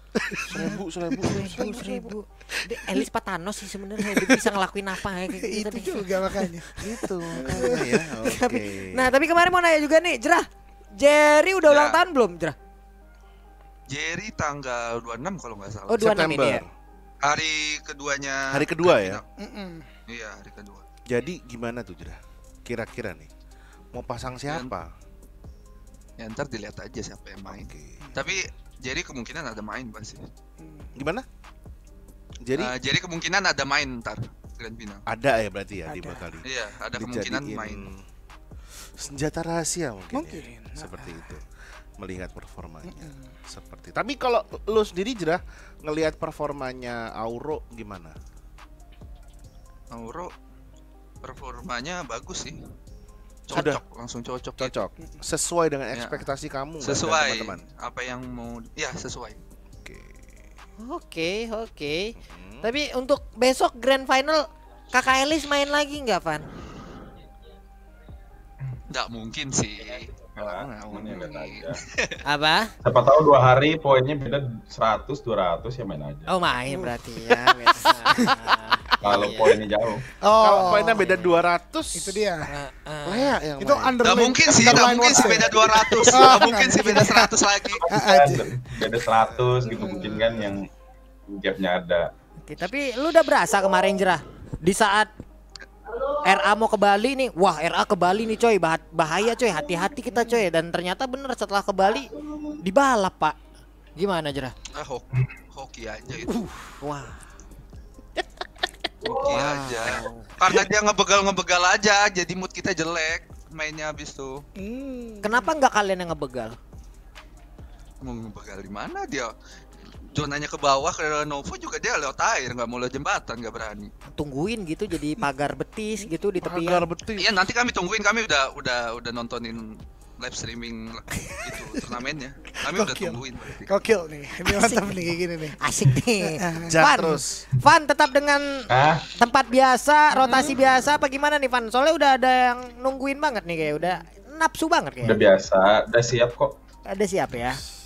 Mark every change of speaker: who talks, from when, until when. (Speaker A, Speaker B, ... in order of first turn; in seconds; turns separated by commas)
Speaker A: 0.2-1.4, Speaker B: 0.5-2.1, Speaker C: 1.2-7.7, Speaker A: 2.7-3.0, Speaker A: 4.1-4.5, Speaker A: 5.4-6.8, Speaker B: 6.8-9.1, Speaker A: 7.3-7.8, Speaker C: 8.2-12.6, Speaker D: 11.7-12.0, Speaker D: 13.9-16.0, Speaker C: 15.9-16.6, Speaker B: 16.0-16.7, Speaker D: 17.2-19.2, Speaker B: 18.5-19.2, Speaker A: 19.4-19.9, Speaker D: 20.1-20.9, Speaker B: 21.1-23.3, Speaker B: 23.9-24.9, Speaker D: 26.2-30.2, Speaker B: 27.5-28.1, Speaker A: 30.6-30.9, Speaker B: 31.0-31.2, Speaker B: 32.5-32.7, Speaker D: 32.5-35.0, Speaker B: 35.1-38.0, Speaker A: 35.9-36.4, Speaker D: 36.5-37.9, Speaker B: 38.8-41.4, Speaker A: 40.1-41.3, Speaker B: 42.0-48.1, Speaker A: 42.9-43.3, Speaker D: 49.9-50.3, Speaker D: 51.2-52.6, Speaker D: 53.5-54.8, Speaker B: 53.5-53.8, Speaker B: 54.6-57.6, Speaker D: 56.0-56.3, Speaker D: 56.8-59.4, Speaker B: 59.8-60.4, Speaker C: 60.8-66.5, Speaker B: 62.2-62.7, Speaker D: 68.9-72.2, Speaker E: 70.3-71.8, Speaker C: 72.2-72.7, Speaker E: 72.8-76.3, Speaker C: 76.3-79.6, Speaker B: 77.3-77.6, Speaker A: 78.2-78.5, Speaker E: 79.0-80.0, Speaker A: 80.2-81.0, Speaker B: 80.4-82.2, Speaker C: 81.0-81.4, Speaker A: 82.0-82.5, Speaker C: 82.5-83.4, Speaker B: 83.1-84.0, Speaker A: 83.6-87.3, Speaker D: 84.0-87.8, Speaker E: 87.8-90.7, Speaker A: 87.9-88.5, Speaker B: 89.3-89.5, Speaker A: 89.7-90.5, Speaker E: 91.3-92.1, Speaker C: 92.5-95.1, Speaker C: 96.1-103.4, Speaker C: 104.0-104.5, Speaker D: 104.7-106.5, Speaker C: 106.5-107.2, Speaker D: 109.0-114.4, Speaker C: 109.2-110.3, Speaker A: 114.6-115.6, Speaker C: 115.2-116.6, Speaker D: 118.0-119.3, Speaker D: 120.1-123.9, Speaker C: 124.2-126.9, Speaker B: 126.4-127.4, Speaker D: 127.2-133.7, Speaker A: 131.5-132.0, Speaker A: 132.7-135.6, Speaker C: 134.4-145.2, Speaker A: 136.2-136.9, Speaker B: 136.7-137.5, Speaker E: 138.7-139.1, Speaker A: 140.1-140.6, Speaker E: 145.0-146.6, Speaker C: 146.9-147.6